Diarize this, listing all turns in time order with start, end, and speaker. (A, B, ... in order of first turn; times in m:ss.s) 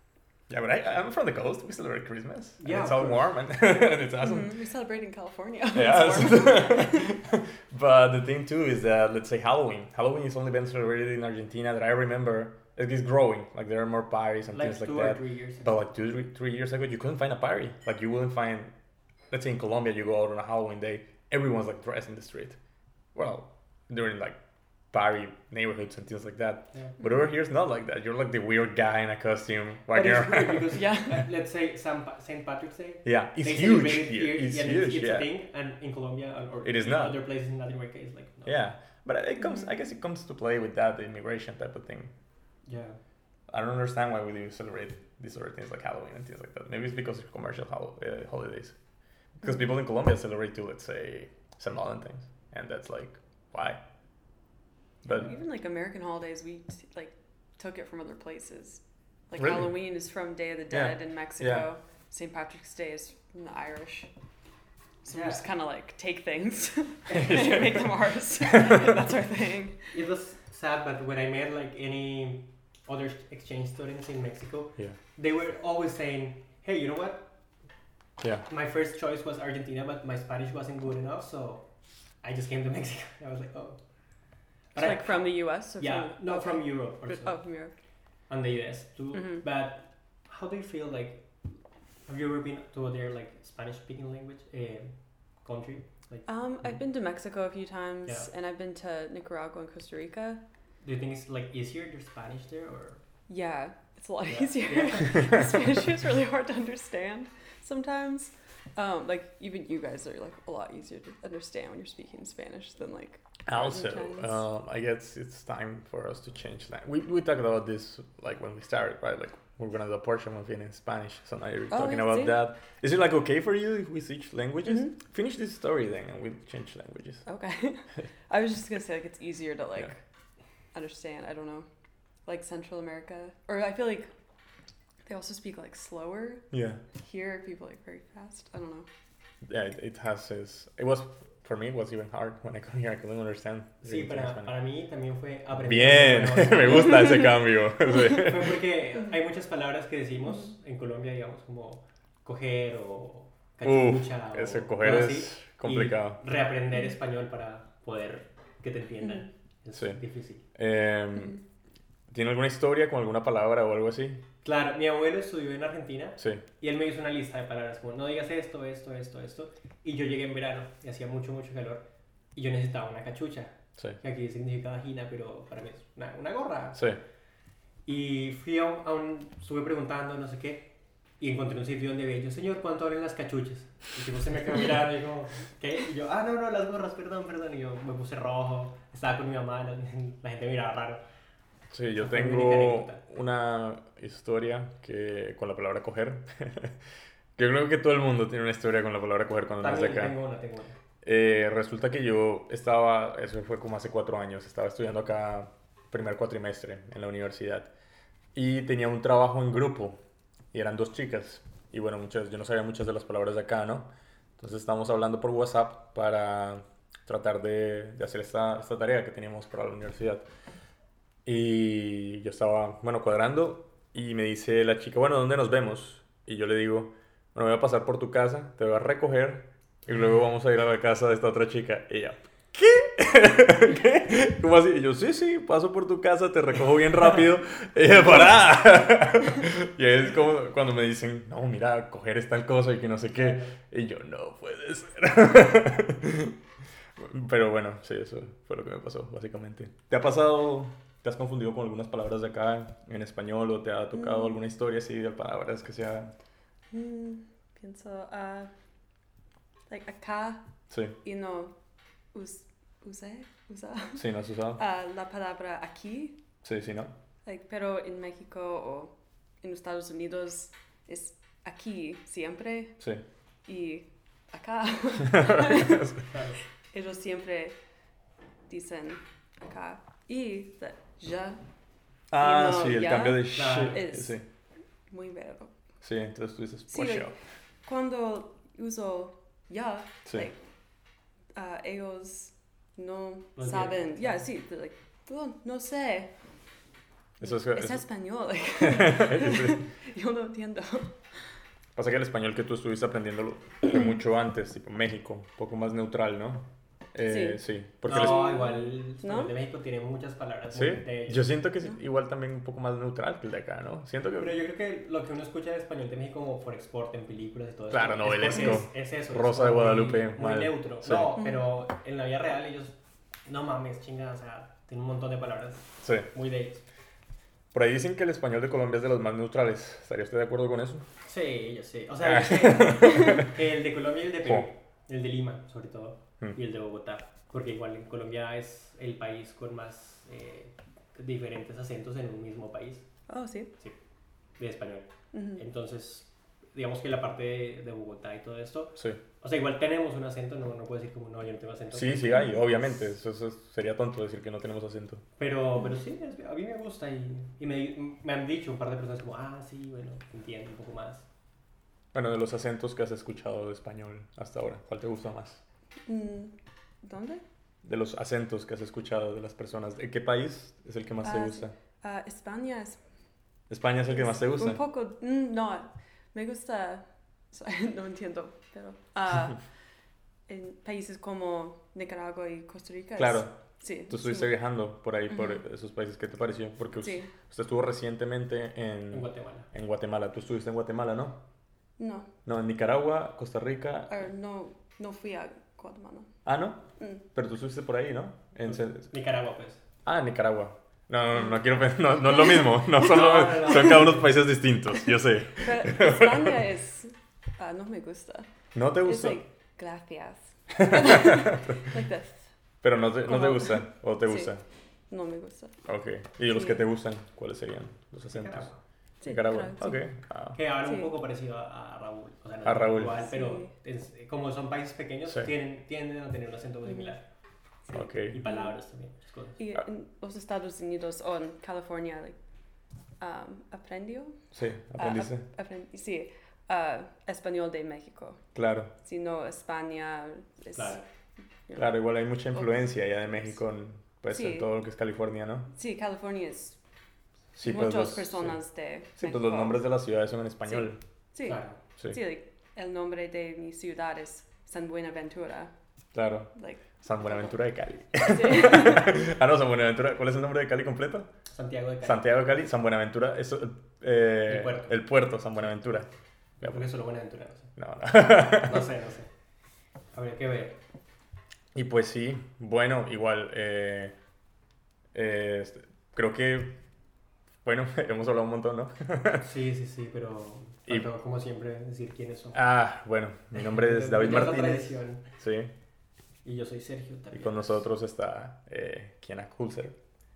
0:00.5-0:04.5 A
0:02.6-0:03.2 B
0:04.2-0:07.1 C
0:05.7-0:18.7 A
0:14.5-0:15.7 B
0:19.3-0:22.6 A
0:23.1-0:24.4 A
0:24.9-0:30.7 A
0:29.9-0:38.6 B
0:30.7-0:31.2 C
0:33.0-0:35.3 A
0:36.6-0:37.2 A
0:38.4-0:42.1 A
0:42.6-0:43.0 B
0:43.5-0:48.7 A
0:49.4-0:53.8 A
0:55.0-0:55.3 A
0:55.1-1:04.1 C
0:59.4-0:59.7 A
1:00.7-1:01.7 A
1:05.0-1:09.9 C
1:05.1-1:05.4 B
1:07.2-1:07.8 A
1:08.5-1:08.8 A
1:09.9-1:17.3 B
1:18.2-1:18.4 A
1:18.5-1:21.6 B
1:22.2-1:23.8 B
1:24.7-1:27.4 B
1:24.8-1:27.7 C
1:28.3-1:31.3 B
1:29.1-1:29.4 C
1:32.0-1:36.3 B
1:36.3-1:40.4 C
1:40.8-1:43.0 B
1:43.3-1:54.4 C
1:44.2-1:45.5 B
1:53.4-2:07.2 A
2:01.7-2:02.4 C
2:04.7-2:04.9 C
2:07.2-2:10.0 C
2:10.7-2:11.6 C
2:12.2-2:14.1 C
2:15.0-2:16.4 C
2:16.5-2:16.8 A
2:17.0-2:18.8 C
2:19.4-2:24.5 A
2:23.8-2:27.2 B
2:25.6-2:28.6 A
2:28.1-2:40.4 B
2:33.6-2:36.2 A
2:39.7-2:40.0 A
2:40.5-2:41.4 A
2:42.1-2:44.2 A
2:44.4-2:56.8 B
2:56.7-2:57.0 A
2:57.8-3:11.0 B
3:11.7-3:16.8 A
3:12.0-3:13.0 B
3:17.4-3:20.2 A
3:19.6-3:20.8 B
3:21.0-3:27.7 A
3:28.3-3:30.0 A
3:30.5-3:40.2 A
3:41.2-4:06.4 A
4:03.2-4:03.5 B
4:07.0-4:16.1 A
4:13.9-4:14.3 C
4:16.7-4:18.5 C
4:19.7-4:20.4 C
4:20.7-4:21.0 A
4:21.0-4:21.5 C
4:22.1-4:24.0 C
4:23.9-4:24.6 A
4:24.6-4:26.2 C
4:26.4-4:26.9 A
4:27.2-4:32.8 C
4:33.4-4:36.0 C
4:35.0-4:36.0 A
4:36.0-4:36.4 B
4:36.7-4:37.6 C
4:38.5-4:41.4 C
4:42.1-4:44.2 A
4:42.2-4:44.2 C
4:43.3-4:43.8 B
4:44.9-4:45.5 C
4:45.8-4:47.1 A
4:46.7-4:47.1 C
4:47.6-4:50.4 C
4:51.3-4:56.1 C
4:53.4-4:54.2 B
4:57.2-4:57.8 A
4:57.2-5:01.2 C
4:58.6-4:59.6 A
5:01.8-5:08.3 A
5:07.0-5:09.3 C
5:07.8-5:11.3 B
5:10.5-5:14.4 A
5:14.2-5:26.6 B
5:17.7-5:21.2 A
5:18.3-5:18.6 C
5:25.8-5:26.1 A
5:27.5-5:30.8 A
5:31.0-5:42.8 B
5:32.0-5:33.3 A
5:43.1-5:43.5 C
5:44.4-5:52.3 B
5:45.1-5:45.4 C
5:51.7-5:55.0 A
5:55.2-6:01.0 B
6:01.9-6:05.4 A
6:05.8-6:07.2 C
6:07.6-6:11.5 A
6:11.0-6:12.8 C
6:13.5-6:14.6 A
6:13.9-6:19.4 C
6:20.3-6:24.3 C
6:23.0-6:23.3 A
6:23.9-6:31.2 A
6:25.1-6:25.4 C
6:26.8-6:27.1 C
6:28.9-6:29.5 B
6:31.8-6:32.1 C
6:32.2-6:33.9 A
6:33.9-6:36.1 C
6:36.2-6:38.9 A
6:38.4-6:39.6 B
6:39.8-6:46.4 A
6:42.8-6:44.1 B
6:45.4-6:48.3 C
6:48.5-6:49.2 A
6:48.8-6:52.2 C
6:50.6-6:51.6 A
6:52.6-6:54.4 A
6:53.0-6:54.3 C
6:54.9-6:55.6 C
6:55.6-6:58.5 A
6:56.3-6:56.6 C
6:58.0-6:58.6 B
6:59.0-6:59.8 C
6:59.0-7:00.4 A
7:00.3-7:07.0 B
7:00.6-7:00.9 C
7:02.4-7:03.0 A
7:03.1-7:03.5 C
7:07.7-7:09.4 B
7:07.7-7:08.2 A
7:08.2-7:08.5 C
7:09.4-7:12.2 C
7:13.0-7:14.2 C
7:14.3-7:15.2 A
7:14.7-7:18.2 C
7:18.3-7:18.7 A
7:18.8-7:20.8 C
7:20.5-7:20.8 B
7:21.5-7:25.5 A
7:24.1-7:24.5 C
7:25.6-7:26.6 C
7:27.4-7:28.4 A
7:27.4-7:29.6 C
7:29.0-7:30.8 A
7:31.1-7:35.5 C
7:31.2-7:31.6 B
7:35.9-7:41.1 A
7:36.4-7:37.3 C
7:38.0-7:39.0 C
7:41.3-7:42.0 B
7:41.8-7:45.9 A
7:44.3-7:44.8 B
7:46.4-7:49.1 B
7:47.6-7:48.6 A
7:49.9-7:50.6 B
7:51.5-7:53.9 A
7:54.9-7:56.5 A
7:57.4-7:59.3 A
7:59.2-8:02.4 B
8:02.3-8:05.5 A
8:03.3-8:05.0 B
8:06.2-8:07.6 B
8:07.2-8:09.7 A